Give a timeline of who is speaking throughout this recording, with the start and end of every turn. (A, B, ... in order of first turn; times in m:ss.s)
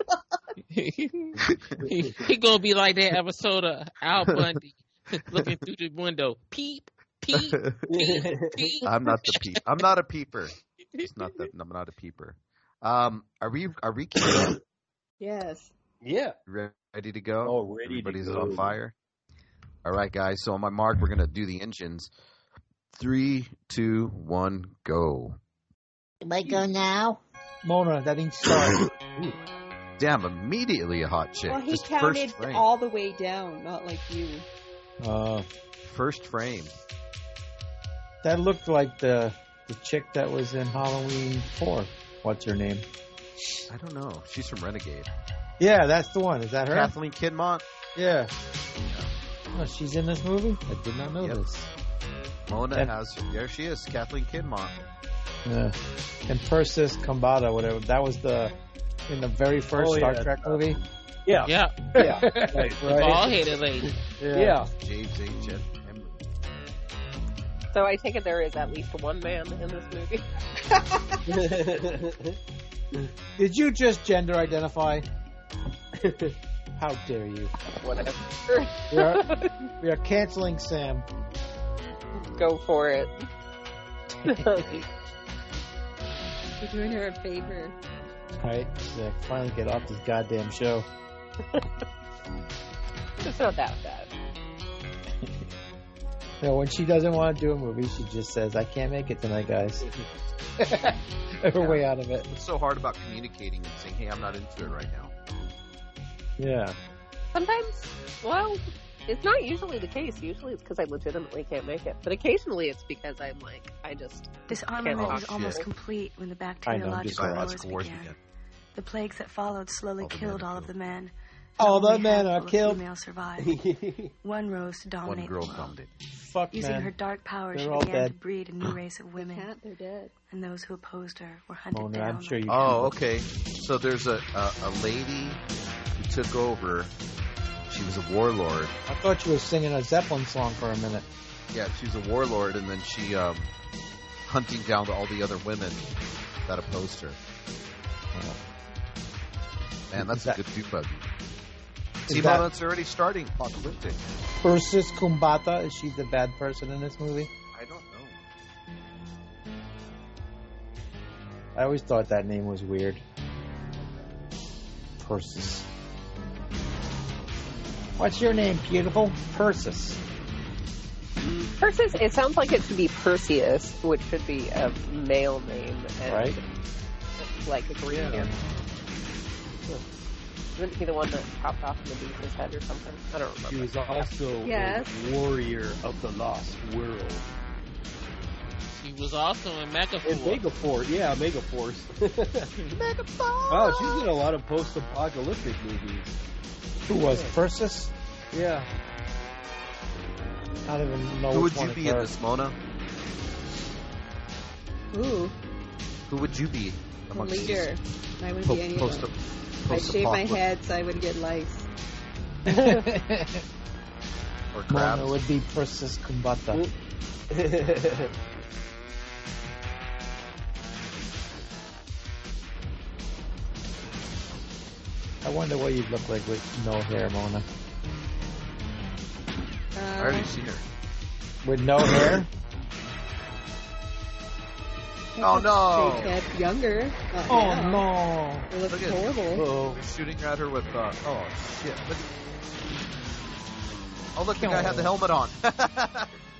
0:00.7-0:09.4 A
0:01.5-0:01.8 B
0:07.3-0:07.8 B
0:07.9-0:08.8 C
0:08.8-0:14.6 B
0:15.2-0:15.7 D
0:16.0-0:16.4 C
0:16.5-0:18.9 B
0:17.4-0:18.7 C
0:19.8-0:22.1 B
0:22.9-0:25.4 B
0:26.2-0:27.2 E
0:27.6-0:28.8 F
0:28.6-0:29.3 C
0:30.0-0:32.6 B
0:31.5-0:34.4 D
0:35.0-0:35.5 F
0:35.8-0:36.7 B
0:38.2-0:42.8 F
0:43.7-0:45.1 B
0:45.6-0:46.9 F
0:46.7-0:47.6 B
0:48.0-0:48.3 F
0:48.8-0:49.1 B
0:49.5-0:51.7 F
0:52.5-0:54.8 B
0:55.4-0:55.7 F
0:56.3-0:58.5 F
0:59.1-1:00.8 F
0:59.8-1:00.6 C
1:01.2-1:03.3 C
1:01.4-1:03.9 A
1:02.0-1:03.3 F
1:04.2-1:04.6 F
1:04.3-1:04.7 C
1:04.7-1:06.2 B
1:07.7-1:10.2 G
1:10.8-1:11.1 D
1:11.2-1:12.4 C
1:13.4-1:15.0 F
1:16.0-1:16.3 C
1:16.8-1:17.5 F
1:17.8-1:19.5 G
1:18.9-1:21.0 F
1:22.2-1:23.1 G
1:24.2-1:24.8 G
1:24.3-1:24.8 F
1:26.6-1:27.8 D
1:28.4-1:30.9 F
1:33.2-1:34.1 G
1:35.2-1:35.4 F
1:36.4-1:39.9 F
1:40.6-1:42.3 F
1:41.6-1:45.1 B
1:46.4-1:46.8 F
1:47.3-1:55.6 G
1:54.5-1:58.1 H
1:55.0-1:55.6 B
1:56.6-1:57.5 F
1:57.1-1:58.2 B
1:58.8-2:03.5 H
2:00.0-2:00.7 B
2:01.6-2:02.8 F
2:03.4-2:04.1 C
2:04.2-2:05.7 H
2:05.0-2:05.9 B
2:06.1-2:06.9 F
2:06.5-2:09.5 H
2:07.5-2:08.1 F
2:09.2-2:10.1 D
2:10.3-2:12.5 H
2:11.7-2:12.9 F
2:12.5-2:15.4 B
2:16.0-2:16.9 B
2:17.7-2:18.7 B
2:18.9-2:21.0 F
2:21.5-2:23.5 B
2:24.3-2:25.8 B
2:26.4-2:27.2 B
2:28.1-2:28.4 F
2:29.9-2:31.1 B
2:29.9-2:30.4 F
2:32.1-2:32.5 F
2:32.1-2:34.0 B
2:34.4-2:37.3 F
2:37.5-2:38.2 B
2:41.6-2:43.0 F
2:45.0-2:45.7 F
2:48.0-2:50.0 F
2:51.2-2:51.5 C
2:51.6-2:56.4 G
2:56.0-2:56.4 F
2:57.2-2:58.3 G
2:57.9-2:58.2 C
3:00.6-3:04.1 G
3:03.5-3:07.3 C
3:04.4-3:04.9 D
3:08.8-3:10.4 A
3:10.0-3:12.5 C
3:12.8-3:14.1 E
3:13.5-3:16.2 C
3:16.9-3:17.9 F
3:17.0-3:17.4 C
3:18.3-3:18.7 C
3:20.6-3:22.1 F
3:21.3-3:22.6 B
3:24.9-3:25.4 D
3:26.1-3:27.7 B
3:27.1-3:29.1 D
3:28.4-3:30.4 B
3:29.7-3:31.7 D
3:32.5-3:32.8 G
3:32.5-3:33.4 F
3:34.5-3:35.2 B
3:34.7-3:36.7 F
3:37.3-3:38.1 C
3:45.2-3:47.4 F
3:49.8-3:50.3 D
3:50.0-3:50.6 B
3:51.4-3:52.3 F
3:55.2-3:57.8 D
3:55.2-3:56.2 B
3:57.3-3:58.5 F
3:58.5-3:59.4 D
3:58.7-4:02.1 B
3:59.3-3:59.8 C
4:04.2-4:06.1 B
4:04.4-4:04.9 F